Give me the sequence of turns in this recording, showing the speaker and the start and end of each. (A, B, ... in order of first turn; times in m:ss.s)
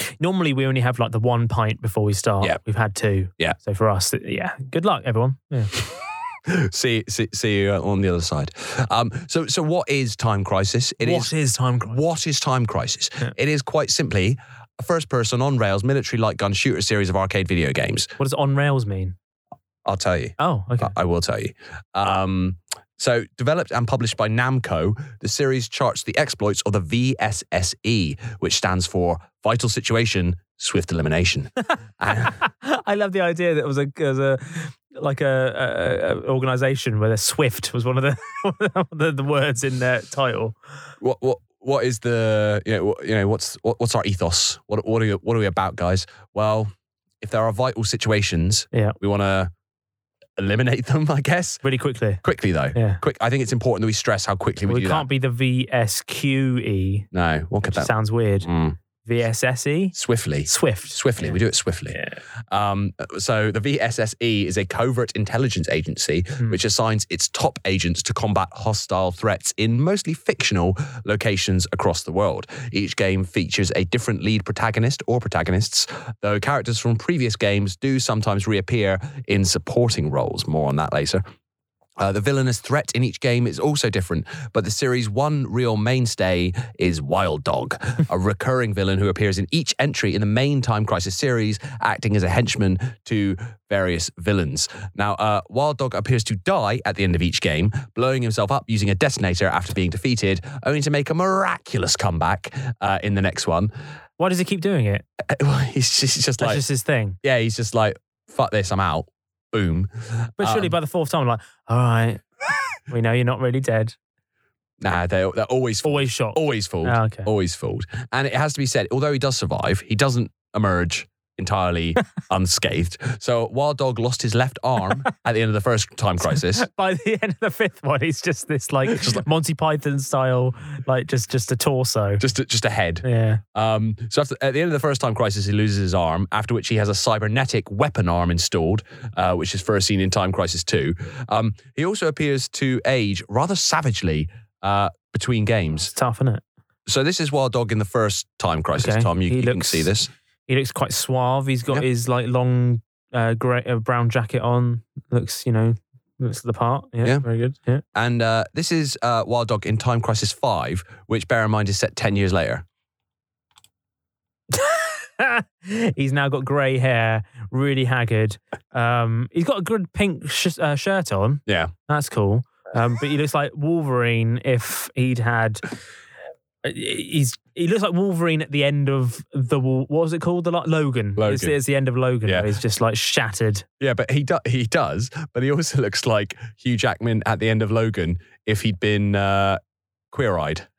0:00.2-0:05.7 A
0:06.5-0:11.3 B
0:11.0-0:12.0 A
0:11.9-0:18.1 B
0:18.2-0:19.2 A
0:19.8-0:32.4 B
0:20.4-0:20.9 A
0:32.2-0:40.6 A
0:41.0-0:49.5 B
0:50.4-0:51.6 B
0:51.6-0:52.2 A
0:52.2-0:55.0 B
0:52.8-0:53.0 A
0:54.7-0:57.1 A
0:57.1-0:58.8 B
0:57.7-0:58.5 A
0:59.0-1:01.4 A
0:59.9-1:02.0 B
1:01.9-1:02.2 A
1:02.5-1:21.2 B
1:22.0-1:43.7 B
1:44.2-1:45.0 A
1:45.3-1:46.6 B
1:46.4-1:47.2 A
1:47.2-1:50.7 B
1:50.4-1:52.2 A
1:52.9-1:54.0 A
1:54.8-2:06.7 B
1:55.8-1:57.3 A
2:06.3-2:12.2 A
2:08.9-2:09.2 B
2:12.2-2:25.9 B
2:13.0-2:13.4 A
2:25.8-2:26.4 A
2:26.9-2:30.1 B
2:28.8-2:29.9 A
2:30.5-2:37.8 A
2:38.0-2:42.6 B
2:44.5-2:55.6 A
2:51.5-2:51.7 B
2:56.6-3:03.7 A
3:01.2-3:01.6 B
3:02.3-3:02.5 B
3:03.8-3:09.6 B
3:10.1-3:10.7 B